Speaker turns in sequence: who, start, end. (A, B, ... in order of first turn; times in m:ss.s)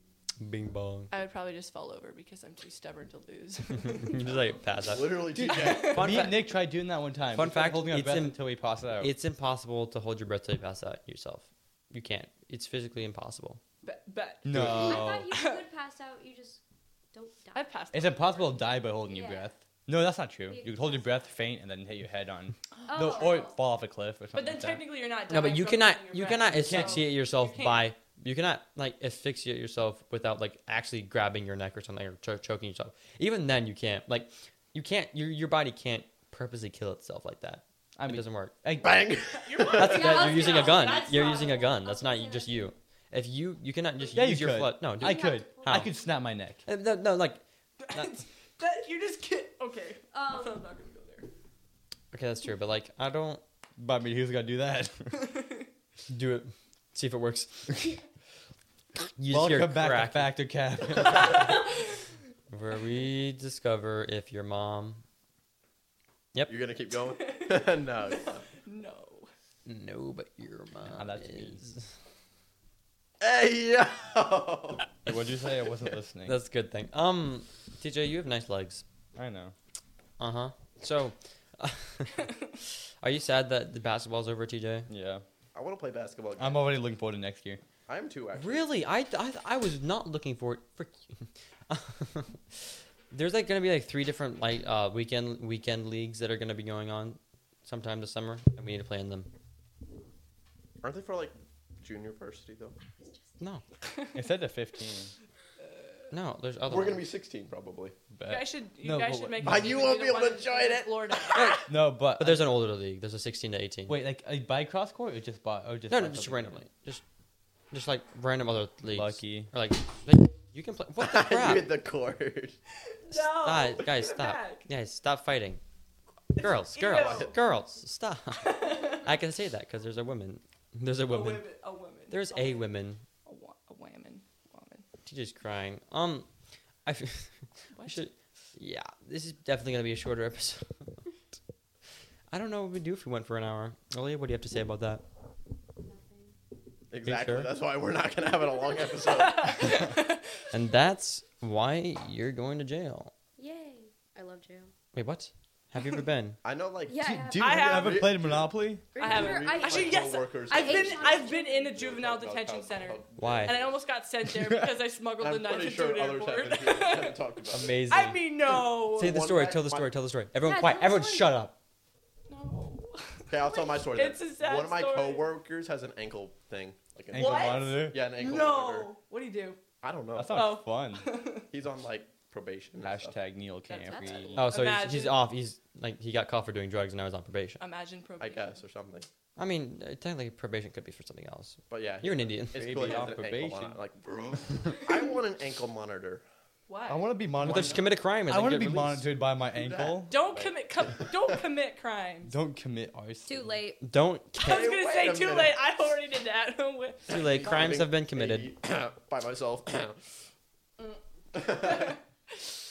0:00.4-0:01.1 A
0:01.1-0:04.2 B
0:03.9-0:06.5 A
0:04.8-0:06.3 C
0:05.3-0:09.1 D
0:05.5-0:06.2 B
0:07.3-0:13.6 A
0:13.8-0:14.6 B
0:14.4-0:15.3 D
0:14.6-0:16.6 E
0:15.3-0:15.6 B
0:17.1-0:17.7 E
0:17.5-0:18.6 B
0:17.9-0:24.8 D
0:19.0-0:19.5 E
0:20.5-0:21.4 E
0:22.9-0:23.6 E
0:23.0-0:23.4 B
0:24.3-0:27.9 B
0:25.3-0:38.5 A
0:26.6-0:27.1 D
0:38.0-0:39.0 D
0:38.8-0:40.2 C
0:39.3-0:41.6 B
0:39.7-0:42.7 E
0:39.8-0:45.9 A
0:44.1-0:46.6 D
0:45.0-0:46.1 E
0:46.6-0:48.2 A
0:47.8-0:51.3 B
0:50.1-0:50.6 E
0:52.1-0:53.4 A
0:53.8-0:55.3 D
0:55.1-0:55.7 B
0:56.1-0:57.9 A
0:59.2-1:00.3 A
0:59.3-1:01.5 D
1:02.5-1:05.0 A
1:06.5-1:08.4 C
1:07.0-1:09.3 B
1:09.6-1:11.9 A
1:10.9-1:11.6 D
1:13.2-1:14.9 C
1:15.0-1:16.4 D
1:16.2-1:18.8 A
1:19.1-1:19.5 D
1:20.2-1:24.9 A
1:24.9-1:25.2 D
1:25.5-1:26.7 C
1:26.4-1:27.6 D
1:27.9-1:28.7 C
1:28.4-1:39.3 A
1:40.8-1:42.8 C
1:44.1-1:45.1 D
1:46.1-1:47.0 A
1:46.7-1:48.0 C
1:48.1-1:49.7 D
1:48.3-1:51.7 B
1:49.4-1:51.6 C
1:51.3-1:51.6 A
1:51.7-1:52.5 D
1:52.2-1:54.0 A
1:53.9-1:56.6 D
1:55.9-1:57.0 A
1:57.7-2:01.7 A
1:58.9-1:59.5 D
2:01.0-2:02.6 C
2:03.0-2:04.7 B
2:03.1-2:05.6 A
2:06.4-2:07.3 B
2:06.4-2:11.4 A
2:06.9-2:07.3 C
2:08.4-2:09.1 B
2:11.1-2:12.7 B
2:12.1-2:13.0 A
2:13.2-2:14.8 B
2:15.0-2:16.3 A
2:16.8-2:20.9 A
2:17.7-2:18.0 B
2:22.3-2:25.0 A
2:25.8-2:26.3 E
2:26.9-2:29.8 C
2:27.0-2:27.5 A
2:29.0-2:30.2 B
2:30.5-2:33.1 A
2:33.4-2:34.7 E
2:34.9-2:36.4 A
2:36.4-2:43.7 C
2:36.9-2:38.0 E
2:37.0-2:38.8 D
2:37.4-2:38.0 B
2:38.9-2:41.6 E
2:39.0-2:47.2 B
2:43.2-2:43.6 A
2:44.3-2:44.6 D
2:45.2-2:47.7 C
2:47.5-2:48.2 A
2:47.9-2:49.2 B
2:48.9-2:49.9 C
2:48.9-2:51.6 A
2:50.4-2:51.4 E
2:52.3-2:55.3 B
2:53.3-2:58.9 C
2:57.1-2:58.0 D
2:57.1-2:59.6 B
2:59.8-3:00.6 C
3:00.1-3:01.1 D
3:00.3-3:01.4 B
3:01.5-3:03.2 C
3:02.8-3:04.5 D
3:03.7-3:05.2 B
3:03.8-3:04.4 E
3:04.4-3:07.6 A
3:07.6-3:08.6 B
3:08.2-3:09.1 C
3:09.4-3:13.4 A
3:11.7-3:16.2 C
3:12.5-3:13.8 D
3:16.7-3:17.1 B
3:16.9-3:20.1 D
3:17.4-3:19.1 A
3:17.4-3:17.8 C
3:19.5-3:21.1 C
3:20.1-3:22.3 B
3:22.3-3:23.6 D
3:23.2-3:23.8 E
3:23.8-3:24.7 A
3:24.4-3:25.6 C
3:24.4-3:27.2 B
3:27.1-3:28.5 A
3:27.1-3:30.0 C
3:30.8-3:32.5 B
3:31.3-3:32.0 C